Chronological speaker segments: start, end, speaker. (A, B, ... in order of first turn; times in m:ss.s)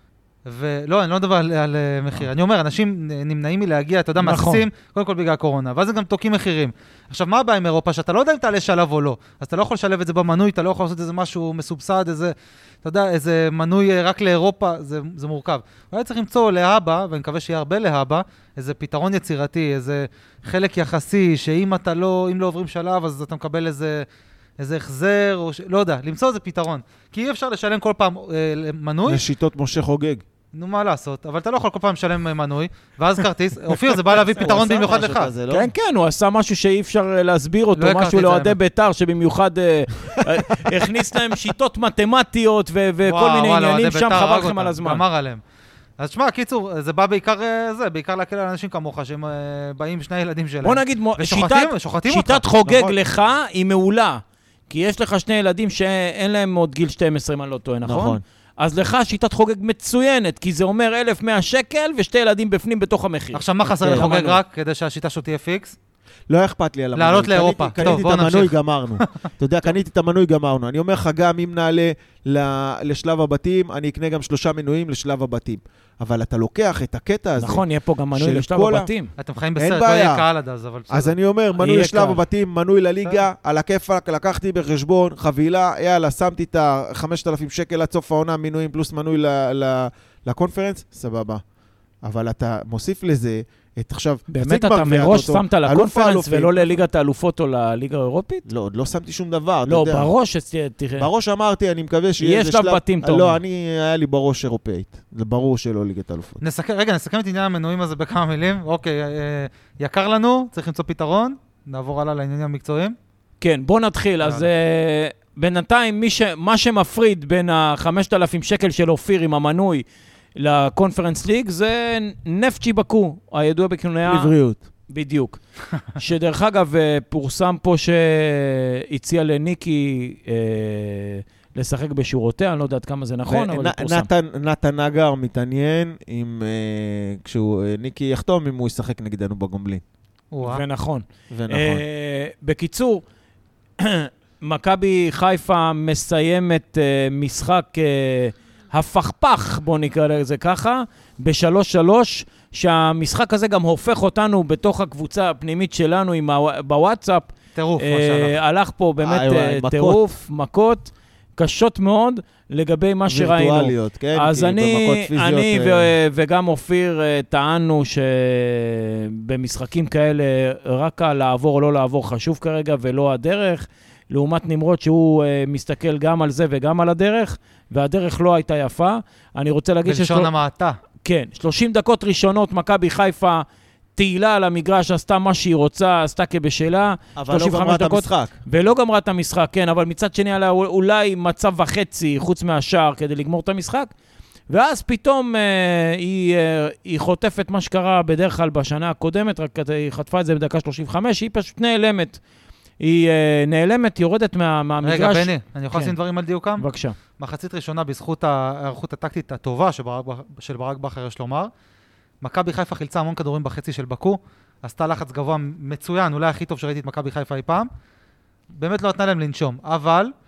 0:00.4-0:24.0 A
0:04.2-0:04.6 B
0:24.6-0:29.2 A
0:29.1-0:30.2 C
0:30.5-0:35.3 A
0:34.1-0:35.7 C
0:35.5-0:45.0 B
0:37.8-0:38.6 A
0:43.0-0:45.4 A
0:46.0-0:52.6 A
0:50.6-1:04.3 B
0:52.6-0:53.0 C
0:57.8-0:58.2 C
1:03.3-1:05.7 A
1:03.8-1:04.3 C
1:06.3-1:18.9 C
1:06.9-1:09.1 A
1:17.4-1:19.1 B
1:19.2-1:21.1 A
1:19.6-1:20.2 C
1:20.9-1:31.4 C
1:21.6-1:22.2 B
1:32.0-1:36.7 C
1:34.3-1:38.5 B
1:38.5-1:40.1 C
1:39.7-1:41.1 B
1:41.0-1:46.4 C
1:42.2-1:43.4 B
1:46.4-1:53.0 A
1:53.4-1:59.8 B
2:00.4-2:04.3 B
2:04.0-2:04.6 C
2:04.9-2:05.4 B
2:05.9-2:14.1 B
2:13.3-2:19.8 C
2:20.3-2:20.6 A
2:20.4-2:23.0 B
2:21.3-2:21.8 C
2:23.8-3:00.3 B
2:37.6-2:38.4 A
2:39.0-2:40.0 C
2:43.1-2:45.9 C
2:59.8-3:00.8 A
3:01.0-3:03.4 B
3:04.0-3:13.9 B
3:07.2-3:08.3 C
3:14.5-3:22.2 B
3:22.8-3:25.9 B
3:24.8-3:26.6 A
3:26.6-3:27.0 B
3:27.2-3:31.5 A
3:32.2-3:37.7 A
3:38.6-3:40.1 A